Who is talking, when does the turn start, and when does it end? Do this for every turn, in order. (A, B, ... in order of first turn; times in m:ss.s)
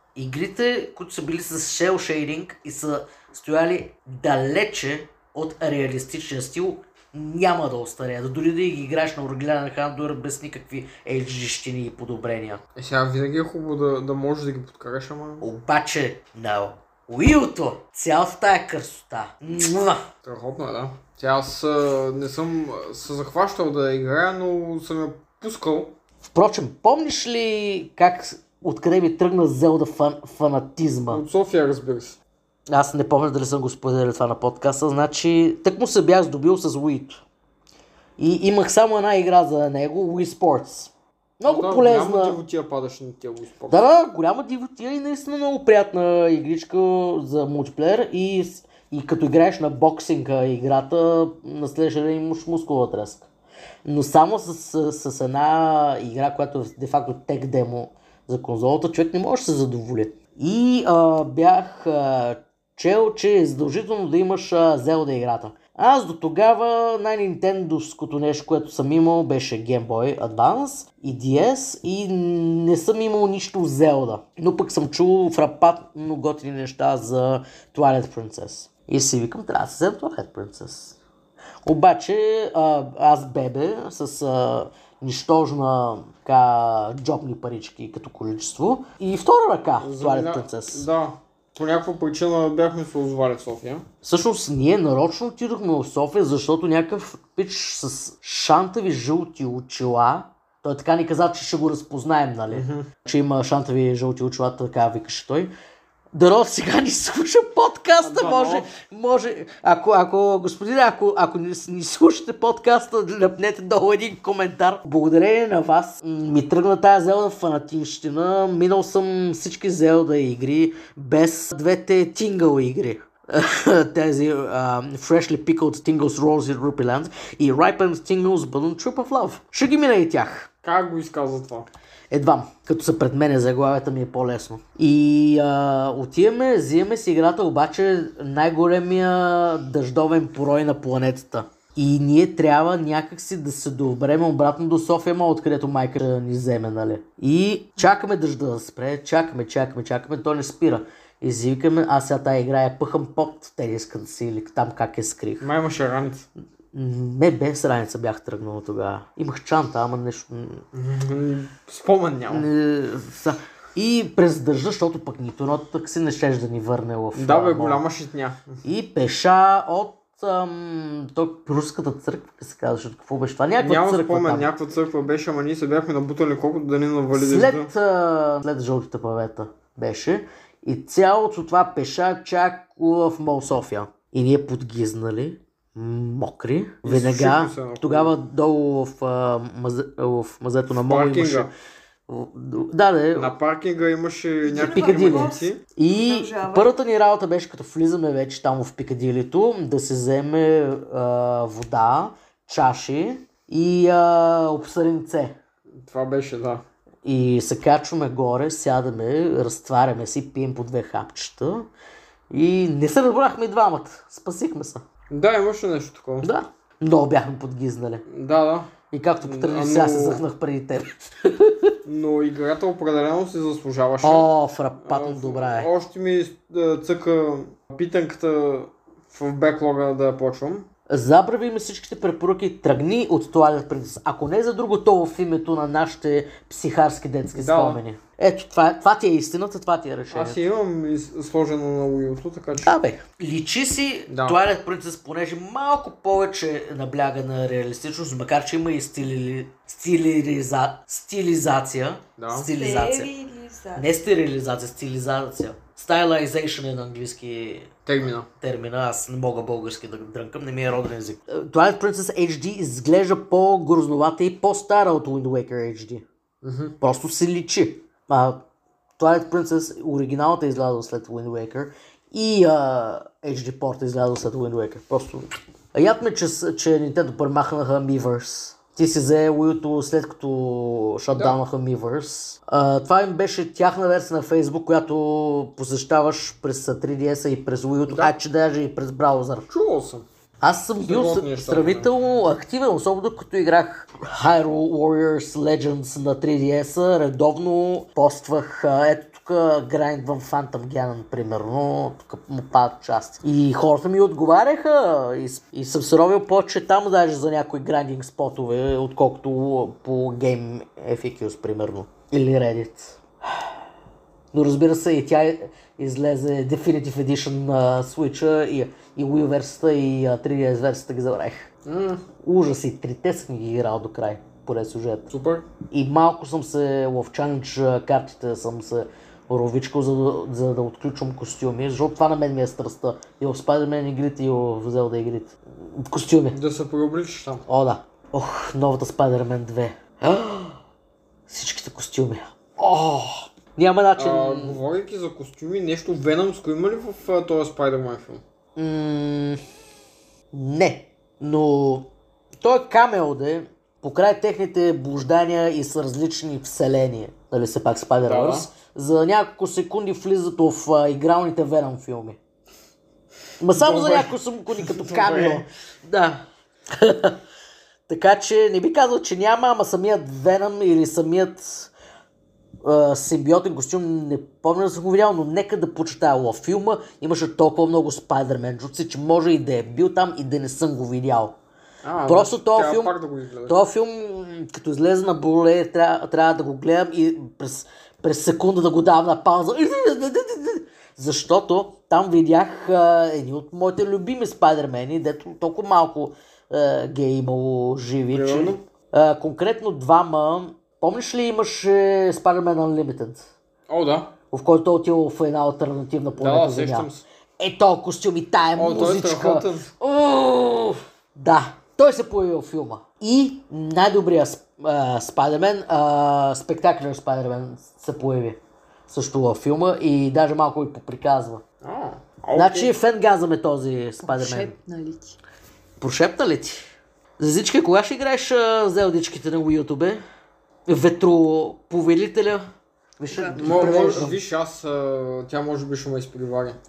0:00.2-0:12.6 A
0:12.8-0:15.5 B
0:15.4-0:20.1 A
0:20.2-0:26.0 B
0:26.3-0:31.2 A
0:31.1-0:32.2 B
0:32.7-0:37.2 A
0:38.2-0:42.4 A
0:41.4-0:43.9 B
0:43.7-0:53.3 A
0:53.8-1:21.0 A
1:21.6-1:30.9 A
1:29.8-1:33.8 B
1:34.0-1:45.5 A
1:42.5-1:42.9 B
1:46.1-2:10.5 A
1:48.0-1:48.7 B
2:10.6-2:11.7 B
2:12.1-2:35.5 A
2:35.4-2:36.3 B
2:36.7-2:40.6 A
2:40.7-2:42.5 B
2:42.3-2:47.8 A
2:47.2-2:48.6 B
2:48.6-2:54.5 A
2:53.6-2:57.7 B
2:57.1-3:11.5 A
3:06.8-3:08.1 B
3:10.8-3:11.5 B
3:12.1-3:13.3 A
3:13.2-3:15.6 B
3:14.4-3:16.8 C
3:14.5-3:25.4 A
3:25.8-3:26.6 B
3:27.0-3:31.7 A
3:32.3-3:34.8 A
3:35.1-3:36.3 B
3:36.2-3:38.0 A
3:38.1-3:40.2 B
3:38.9-3:41.8 A
3:41.8-3:44.3 B
3:44.0-3:45.7 A
3:44.8-3:50.7 B
3:50.9-4:00.4 A
3:57.4-3:57.8 B
4:00.1-4:02.8 B
4:02.6-4:13.1 A
4:04.1-4:04.4 B
4:12.2-4:12.5 B
4:12.5-4:13.9 C
4:13.8-4:17.7 A
4:17.9-4:18.3 B
4:18.4-4:26.1 A
4:26.4-4:26.8 B
4:26.8-4:28.4 A
4:29.0-4:49.5 A
4:47.9-4:48.1 B
4:49.5-4:50.0 B
4:50.4-5:13.5 A
4:50.8-4:51.9 B
5:14.3-5:21.5 A
5:21.6-5:22.0 B
5:22.2-5:25.1 A
5:25.1-5:25.5 B
5:25.7-5:36.4 A
5:36.3-5:37.5 B
5:37.5-5:40.6 A
5:41.3-5:44.6 A
5:44.0-5:48.2 B
5:48.6-5:49.4 A
5:50.3-5:51.9 A
5:52.4-6:02.2 A
5:58.0-5:58.5 B
6:03.4-6:07.2 A
6:03.5-6:05.4 B
6:07.9-6:11.7 A
6:12.6-6:21.4 A
6:21.8-6:23.6 B
6:22.1-6:22.9 A
6:23.5-6:43.2 A
6:38.1-6:38.6 B
6:43.7-6:44.2 B
6:44.3-7:01.4 A
6:46.2-6:47.0 B
6:48.6-6:49.7 B
7:01.6-7:02.7 B
7:02.3-7:04.5 A
7:04.0-7:05.2 C
7:05.8-7:06.6 A
7:07.2-7:10.0 A
7:10.7-7:12.4 A
7:13.0-7:14.2 A
7:13.1-7:14.1 C
7:13.4-7:16.6 B